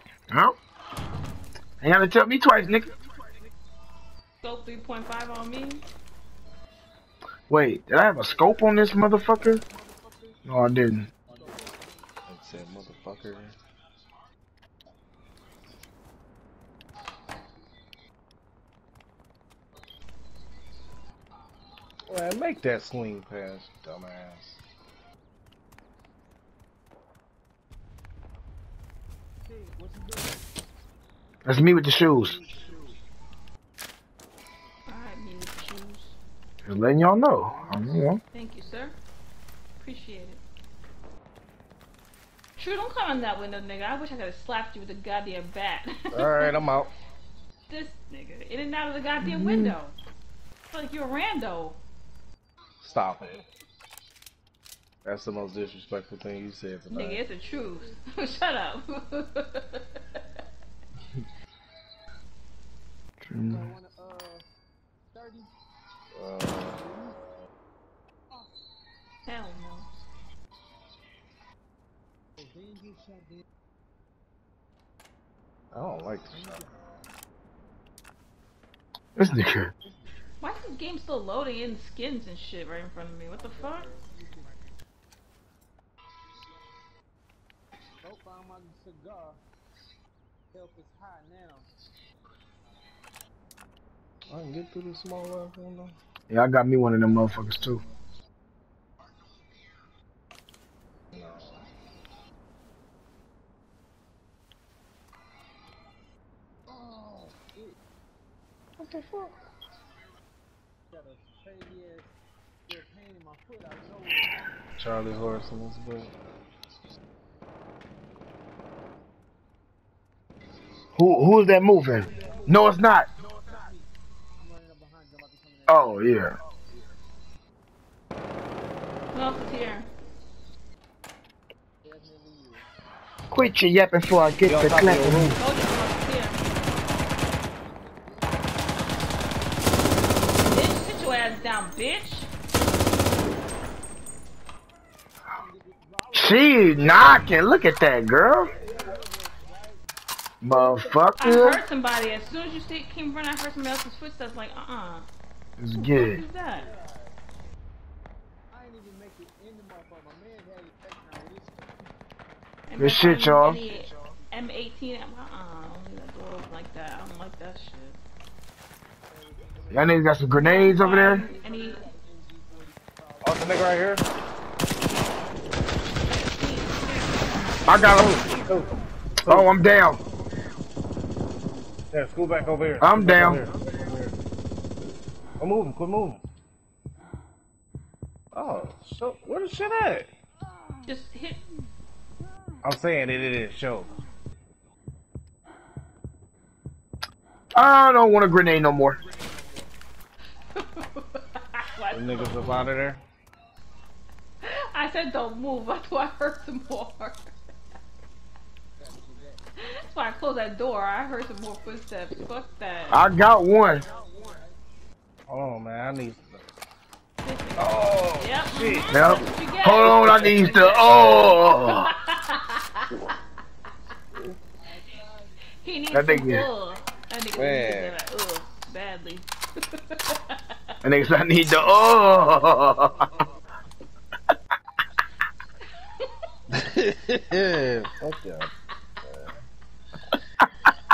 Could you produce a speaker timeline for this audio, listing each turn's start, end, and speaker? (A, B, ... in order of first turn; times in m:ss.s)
0:00.3-0:00.6 A
0:01.8-0:02.9 A
0:04.4-0:05.8 B
0:07.5-0:09.6 A
0:09.5-0:10.4 C
0:10.5-0:11.1 A
0:11.3-0:12.0 C
0:12.3-0:13.6 D
0:22.1-0:24.6 D
0:29.5-0:30.5 C
0:31.4-0:32.4 A
0:31.9-0:33.0 C
0:34.9-0:36.2 B
0:36.6-0:38.2 A
0:37.5-0:37.9 C
0:38.3-0:39.0 B
0:39.8-0:40.4 B
0:42.6-0:46.7 B
0:46.1-0:46.9 D
0:47.7-0:50.0 B
0:49.2-0:49.8 A
0:50.7-0:51.8 B
0:52.8-0:53.4 D
0:55.0-0:57.2 D
0:56.9-0:59.8 B
1:03.2-1:03.7 A
1:03.4-1:04.4 C
1:05.1-1:05.5 C
1:06.1-1:06.8 D
1:06.6-1:07.2 C
1:09.3-1:09.9 B
1:12.4-1:13.4 C
1:15.7-1:16.6 D
1:16.3-1:16.7 C
1:19.2-1:19.7 A
1:20.4-1:23.9 B
1:23.4-1:24.6 C
1:28.0-1:29.4 C
1:30.5-1:31.7 C
1:34.3-1:36.0 D
1:36.3-1:37.8 A
1:41.2-1:41.5 D
1:48.8-1:49.3 D
1:50.9-1:52.1 C
1:52.7-1:54.4 C
1:54.8-1:56.1 D
2:01.0-2:03.1 A
2:02.1-2:05.9 C
2:05.7-2:06.4 A
2:09.1-2:09.9 B
2:11.8-2:12.7 C
2:13.3-2:15.4 A
2:14.5-2:15.4 D
2:15.4-2:16.4 B
2:16.7-2:19.4 C
2:20.4-2:22.3 B
2:25.3-2:27.3 C
2:26.1-2:28.5 A
2:28.6-2:29.9 C
2:30.4-2:31.6 A
2:31.2-2:35.1 B
2:35.6-2:36.2 A
2:35.7-2:36.7 B
2:36.6-2:37.2 C
2:38.5-2:41.9 C
2:42.7-2:48.0 B
2:42.8-2:43.6 A
2:49.1-2:53.8 C
2:49.7-2:51.3 A
2:50.4-2:51.8 B
2:53.2-2:54.0 D
2:56.1-2:57.4 B
2:57.7-2:58.3 A
2:58.3-2:59.5 D
2:59.3-3:00.0 A
3:01.9-3:04.1 D
3:02.8-3:03.4 A
3:05.4-3:06.2 D
3:08.3-3:10.1 D
3:10.9-3:11.4 B
3:12.6-3:13.9 D
3:17.6-3:19.0 A
3:20.6-3:22.7 B
3:21.9-3:23.0 D
3:24.4-3:27.3 B
3:28.8-3:29.4 C
3:29.7-3:33.1 B
3:32.9-3:33.8 A
3:33.8-3:34.6 C
3:35.3-3:36.5 D
3:37.2-3:42.9 B
3:37.6-3:38.9 D
3:38.9-3:41.9 A
3:44.7-3:45.4 C
3:45.6-3:50.4 B
3:45.9-3:46.5 A
3:47.4-3:48.0 D
3:50.8-3:53.1 A
3:56.5-3:58.5 D
3:59.0-3:59.3 D